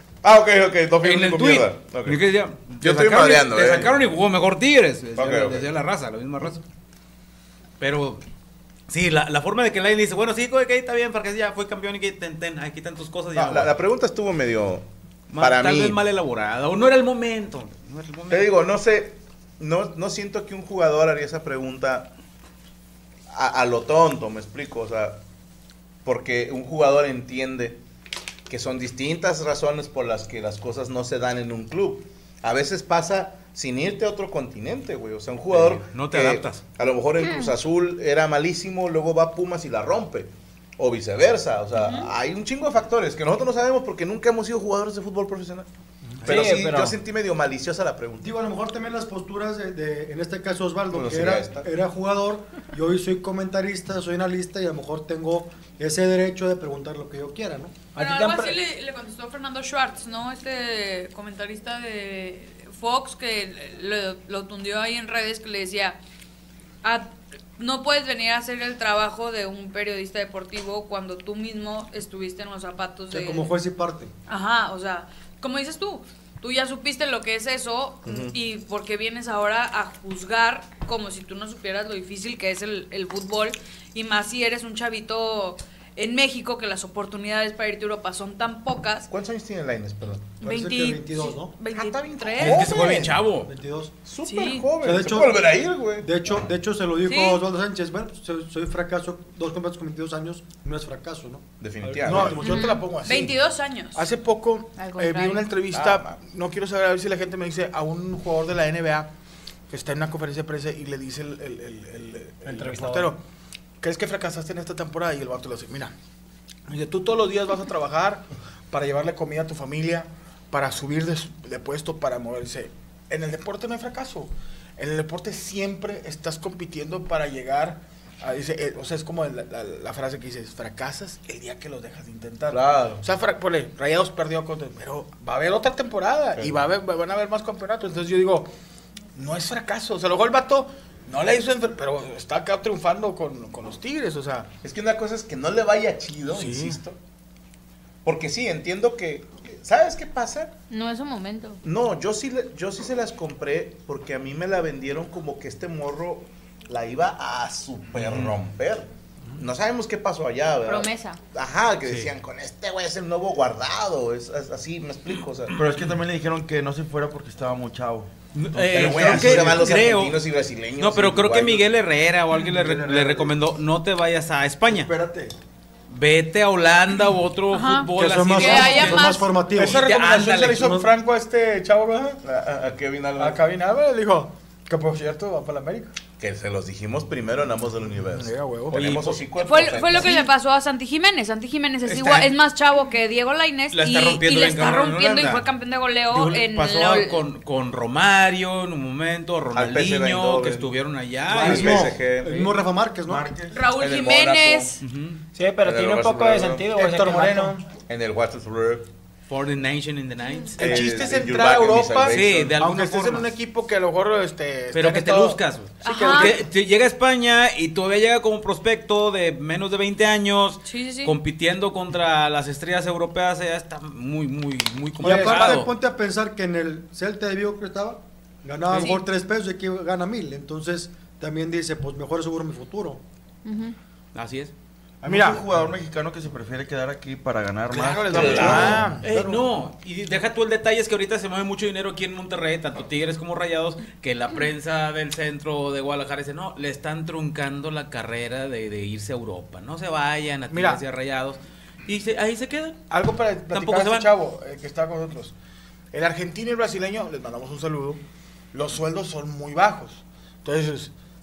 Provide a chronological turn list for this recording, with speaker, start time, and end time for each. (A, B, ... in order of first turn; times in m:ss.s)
0:00.2-0:02.2 A
0:01.0-0:06.6 B
0:02.8-0:03.9 A
0:05.2-0:05.6 A
0:07.8-0:08.2 B
0:08.9-0:13.7 B
0:13.3-0:14.8 A
0:15.3-0:18.5 B
0:15.4-0:16.0 A
0:18.3-0:22.1 A
0:23.3-0:25.2 A
0:26.0-0:27.8 A
0:28.5-0:45.7 A
0:35.5-0:36.6 B
0:41.8-0:42.1 C
0:46.2-0:48.3 A
0:46.2-0:46.9 D
0:48.2-0:57.8 E
0:50.9-0:51.7 A
0:57.9-0:58.6 D
0:57.9-1:06.0 C
1:06.8-1:13.5 C
1:13.1-1:14.1 E
1:14.3-1:29.1 C
1:18.0-1:18.3 A
1:29.1-1:30.4 A
1:30.4-1:32.9 C
1:30.4-1:31.5 E
1:31.7-1:33.3 A
1:32.4-1:33.5 B
1:33.4-1:33.9 E
1:34.0-1:36.1 A
1:34.2-1:34.7 C
1:34.8-1:41.4 E
1:37.0-1:37.4 C
1:41.6-1:42.5 A
1:41.8-1:43.4 F
1:42.0-1:42.6 E
1:42.4-1:44.0 C
1:43.9-1:49.1 F
1:44.8-1:45.5 G
1:45.7-1:46.2 A
1:49.7-1:53.2 F
1:52.4-1:53.1 D
1:53.8-1:55.9 F
1:56.7-2:18.5 F
2:12.5-2:13.0 A
2:19.1-2:24.5 F
2:24.6-2:27.0 A
2:26.3-2:26.8 F
2:28.0-2:30.5 A
2:30.7-2:31.6 G
2:31.6-2:45.5 A
2:38.0-2:38.3 B
2:40.6-2:41.2 G
2:41.8-2:42.1 B
2:45.5-2:49.7 H
2:48.3-2:50.2 B
2:48.7-2:51.7 A
2:50.8-2:54.9 B
2:52.5-2:53.3 H
2:54.6-2:55.3 H
2:55.9-3:00.8 B
2:57.5-2:59.3 C
2:57.9-2:59.8 E
2:59.5-3:02.2 F
3:00.6-3:00.9 E
3:02.2-3:03.4 A
3:03.2-3:05.9 F
3:06.2-3:10.3 A
3:07.9-3:08.8 F
3:08.7-3:09.2 B
3:09.3-3:17.2 C
3:09.9-3:10.2 B
3:11.8-3:12.3 B
3:13.7-3:15.4 B
3:16.1-3:21.9 B
3:19.5-3:20.7 A
3:21.3-3:22.4 A
3:21.3-3:23.4 E
3:23.0-3:23.5 H
3:23.5-3:24.8 C
3:23.7-3:24.7 A
3:24.8-3:25.2 B
3:25.3-3:27.6 D
3:25.6-3:26.7 A
3:26.8-3:27.6 F
3:27.8-3:28.8 A
3:29.3-3:30.9 B
3:30.6-3:35.4 F
3:30.6-3:32.6 A
3:32.1-3:33.3 B
3:34.7-3:45.7 B
3:35.8-3:36.4 C
3:35.9-3:36.2 E
3:36.0-3:36.3 F
3:40.6-3:41.1 C
3:45.0-3:53.0 E
3:48.8-3:49.0 C
3:54.1-3:54.5 B
3:55.0-3:58.9 H
3:55.0-3:55.4 F
3:57.7-3:59.0 F
3:58.1-3:58.8 A
3:58.2-3:59.5 E
3:59.0-4:12.8 B
4:10.5-4:10.8 F
4:12.9-4:15.3 F
4:13.5-4:14.1 B
4:15.9-4:18.0 F
4:18.5-4:20.9 F